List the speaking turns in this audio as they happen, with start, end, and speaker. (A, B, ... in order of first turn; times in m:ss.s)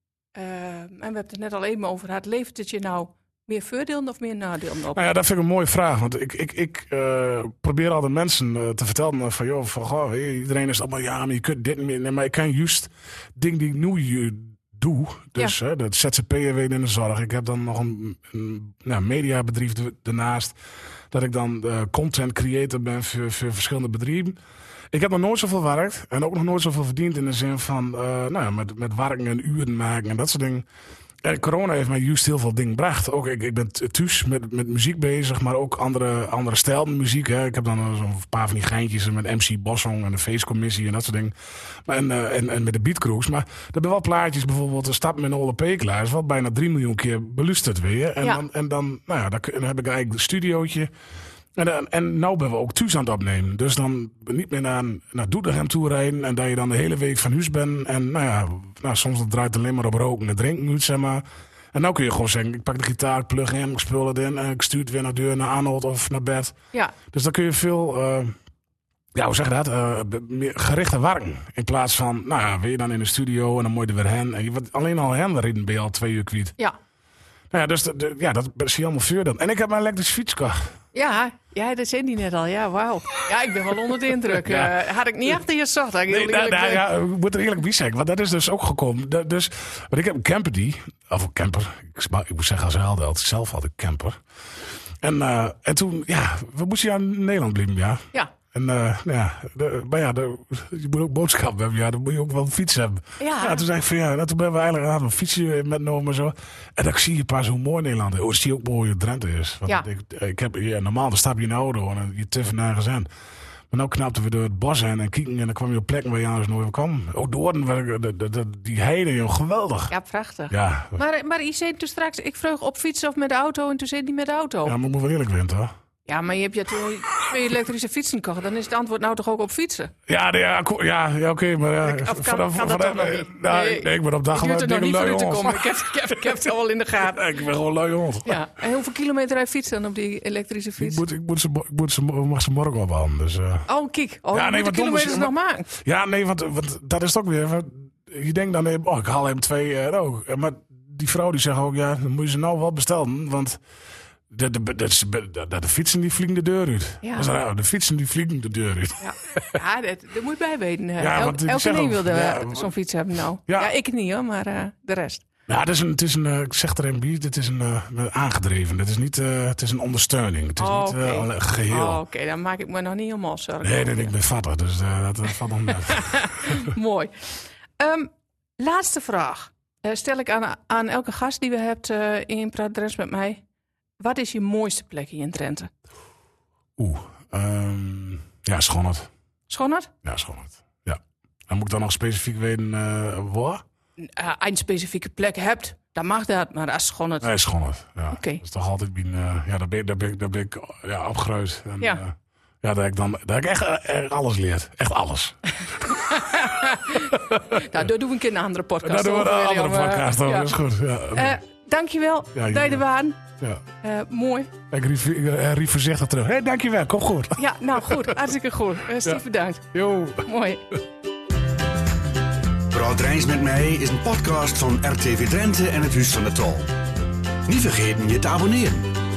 0:00.4-0:05.0 A
0:04.9-0:20.6 B
0:21.1-0:24.4 B
0:24.9-0:30.7 B
0:31.2-0:41.3 B
0:41.9-0:50.9 B
0:51.6-1:06.6 B
1:07.1-1:08.4 B
1:09.2-1:16.6 B
1:17.5-1:20.7 B
1:20.9-1:26.8 A
1:24.4-1:24.7 B
1:26.1-1:34.2 B
1:35.0-1:53.1 B
1:43.2-1:43.6 A
1:53.7-1:59.9 B
1:59.9-2:04.8 A
2:00.5-2:01.0 B
2:04.6-2:05.7 B
2:06.1-2:09.9 A
2:10.1-2:18.4 B
2:11.8-2:17.4 A
2:18.3-2:21.0 A
2:20.8-2:23.7 B
2:23.7-2:25.7 A
2:24.3-2:33.6 B
2:34.3-2:39.6 B
2:37.0-2:37.3 A
2:39.0-2:45.2 A
2:41.0-2:42.7 B
2:45.5-2:52.0 B
2:50.6-2:54.1 A
2:53.6-2:56.7 B
2:55.8-3:03.4 A
3:04.0-3:05.7 A
3:06.8-3:09.1 B
3:09.5-3:09.9 A
3:10.0-3:13.6 B
3:14.0-3:17.3 A
3:17.2-3:27.7 B
3:18.1-3:18.4 A
3:25.9-3:30.6 A
3:28.8-3:31.4 B
3:31.1-3:33.2 A
3:32.3-3:32.8 B
3:33.8-3:34.5 A
3:34.7-3:38.2 B
3:37.4-3:40.6 A
3:39.0-3:40.2 B
3:42.7-3:46.7 C
3:47.5-3:49.0 C